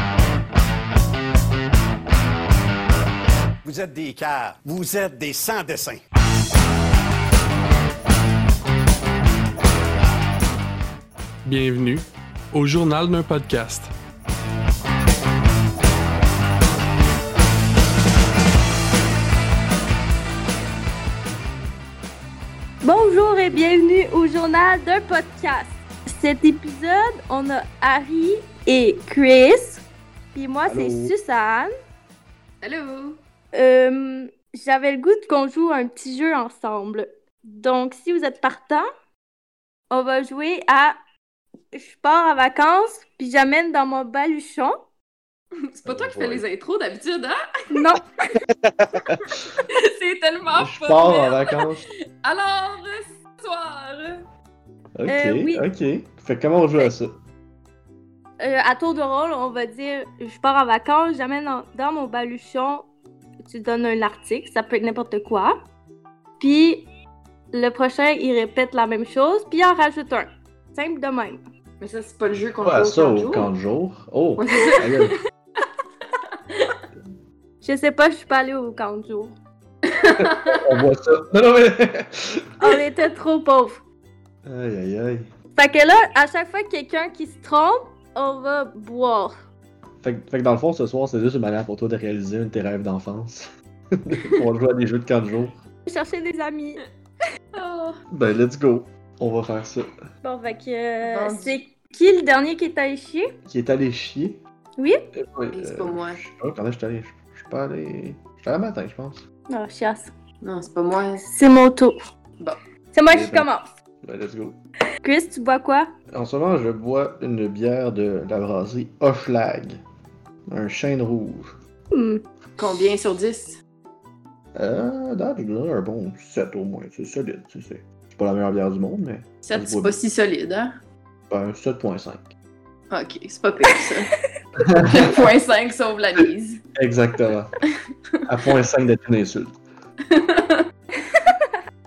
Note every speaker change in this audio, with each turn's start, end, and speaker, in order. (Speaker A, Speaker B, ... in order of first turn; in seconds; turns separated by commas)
Speaker A: 3.6-6.0, Speaker B: 11.4-13.9, Speaker C: 22.8-31.7, Speaker D: 30.6-31.1, Speaker E: 32.6-33.2, Speaker C: 33.5-38.9, Speaker C: 39.9-41.0, Speaker C: 41.7-44.8, Speaker E: 45.6-47.4, Speaker D: 45.9-46.4, Speaker C: 47.7-48.4, Speaker D: 48.8-49.2, Speaker E: 49.7-51.7, Speaker D: 50.5-51.8, Speaker E: 52.2-54.2, Speaker D: 55.0-57.2, Speaker C: 55.1-55.6, Speaker C: 58.4-62.9, Speaker C: 63.5-65.6, Speaker C: 66.4-66.9, Speaker C: 67.5-71.4, Speaker E: 71.8-73.5, Speaker D: 72.6-75.2, Speaker E: 74.4-75.2, Speaker E: 76.5-76.8, Speaker C: 77.6-79.3, Speaker E: 79.9-80.6, Speaker D: 80.2-82.5, Speaker C: 82.6-83.8, Speaker D: 84.5-85.3, Speaker C: 85.6-89.4, Speaker D: 90.0-95.6, Speaker C: 95.9-96.8, Speaker E: 97.6-98.0, Speaker D: 98.1-99.9, Speaker C: 100.2-103.3, Speaker E: 101.0-101.7, Speaker D: 103.5-104.4, Speaker C: 104.8-105.1, Speaker D: 105.1-109.2, Speaker E: 105.5-106.2, Speaker C: 109.5-110.1, Speaker E: 110.4-111.3, Speaker C: 111.3-112.0, Speaker C: 112.9-113.7, Speaker D: 113.1-113.5, Speaker D: 114.0-114.6, Speaker C: 115.0-115.9, Speaker D: 116.1-119.8, Speaker D: 120.5-121.5, Speaker C: 121.9-122.2, Speaker E: 122.6-123.6, Speaker D: 124.5-130.0, Speaker E: 129.4-130.7, Speaker D: 131.3-132.3, Speaker E: 132.9-134.1, Speaker D: 134.6-135.3, Speaker E: 134.8-136.6, Speaker D: 136.8-137.6, Speaker D: 138.3-139.6, Speaker E: 140.1-140.7